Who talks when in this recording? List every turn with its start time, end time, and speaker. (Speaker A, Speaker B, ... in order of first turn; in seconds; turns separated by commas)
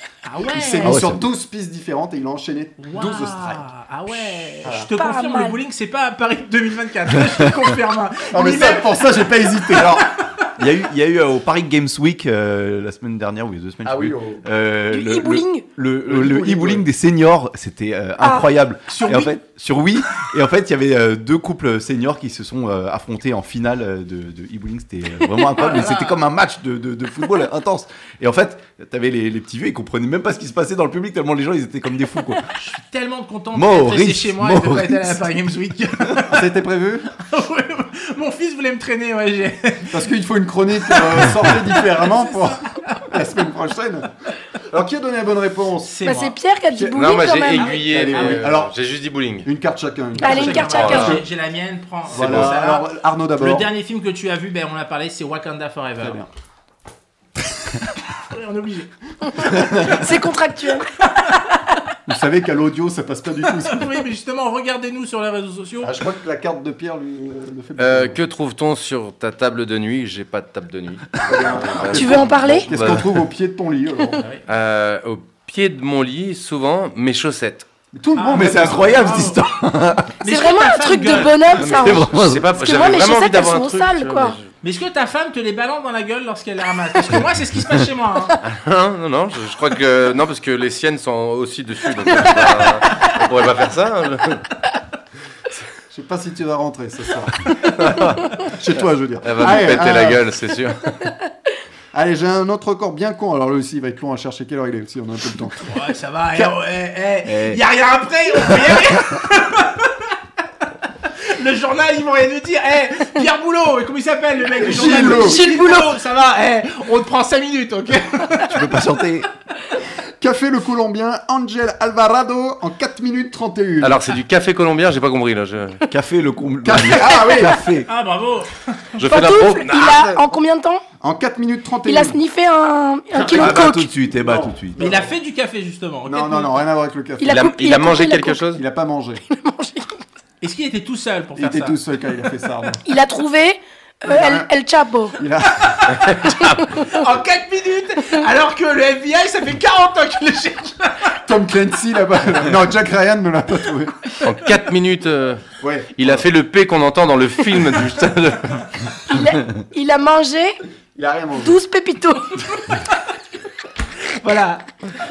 Speaker A: 0.2-1.0, Speaker B: 0.5-4.9, Speaker C: 0.8-1.2, Speaker A: 2.8-10.5, Speaker D: 5.0-5.6, Speaker B: 8.3-10.1, Speaker C: 10.6-32.5, Speaker B: 13.8-14.4, Speaker D: 14.9-15.6, Speaker B: 16.0-16.9, Speaker D: 18.2-18.5, Speaker A: 18.9-19.3, Speaker A: 25.5-26.2, Speaker A: 32.5-36.5, Speaker C: 33.5-35.3, Speaker B: 36.3-37.1, Speaker A: 37.1-40.0, Speaker B: 39.9-44.1, Speaker A: 40.9-43.1, Speaker B: 44.6-46.0, Speaker A: 45.8-46.3, Speaker D: 46.0-47.7, Speaker B: 46.7-48.7, Speaker E: 46.9-49.5, Speaker A: 47.6-48.5, Speaker B: 49.4-51.2, Speaker A: 50.2-56.2, Speaker D: 50.2-51.2, Speaker E: 50.6-51.2, Speaker B: 52.0-53.7, Speaker B: 56.0-56.3, Speaker A: 58.2-60.0, Speaker D: 59.3-60.9, Speaker B: 59.5-59.9, Speaker B: 62.1-64.0, Speaker A: 63.5-66.0, Speaker B: 65.8-68.2, Speaker E: 67.8-73.1, Speaker B: 71.2-74.2, Speaker D: 71.9-72.7, Speaker A: 74.2-74.4, Speaker E: 74.5-77.7, Speaker B: 77.9-79.3, Speaker A: 78.1-79.4, Speaker C: 78.3-80.1, Speaker A: 80.2-81.8, Speaker D: 80.2-84.3, Speaker E: 81.6-84.5, Speaker C: 81.8-82.5, Speaker A: 84.6-88.4, Speaker E: 88.4-94.4, Speaker B: 95.9-97.5, Speaker E: 97.7-98.3, Speaker B: 98.4-100.2, Speaker E: 99.2-101.0, Speaker B: 101.9-105.7, Speaker A: 105.6-110.1, Speaker C: 107.2-107.6, Speaker A: 111.0-118.9, Speaker B: 114.5-115.4, Speaker D: 115.0-115.9, Speaker C: 118.5-119.3, Speaker B: 120.2-124.0, Speaker E: 123.8-125.8, Speaker C: 125.9-127.9, Speaker B: 126.6-127.6, Speaker A: 127.8-129.0, Speaker E: 129.0-130.1, Speaker D: 129.0-130.8, Speaker B: 131.0-132.2, Speaker D: 131.8-133.9, Speaker B: 133.1-135.1, Speaker C: 133.3-134.9, Speaker A: 134.8-136.6, Speaker B: 136.0-137.5, Speaker D: 137.2-138.4, Speaker E: 137.2-138.6, Speaker B: 138.5-139.2, Speaker D: 139.3-140.0, Speaker A: 140.4-141.8, Speaker B: 141.3-142.8, Speaker D: 142.8-145.2, Speaker B: 144.1-144.5, Speaker B: 145.2-145.8, Speaker E: 146.0-146.3, Speaker D: 146.4-146.8, Speaker A: 146.8-151.2, Speaker B: 151.2-154.0, Speaker E: 154.2-155.4, Speaker B: 155.6-156.2, Speaker E: 156.0-158.7, Speaker D: 159.1-160.6, Speaker B: 160.9-161.6, Speaker D: 161.4-162.4, Speaker A: 164.1-164.7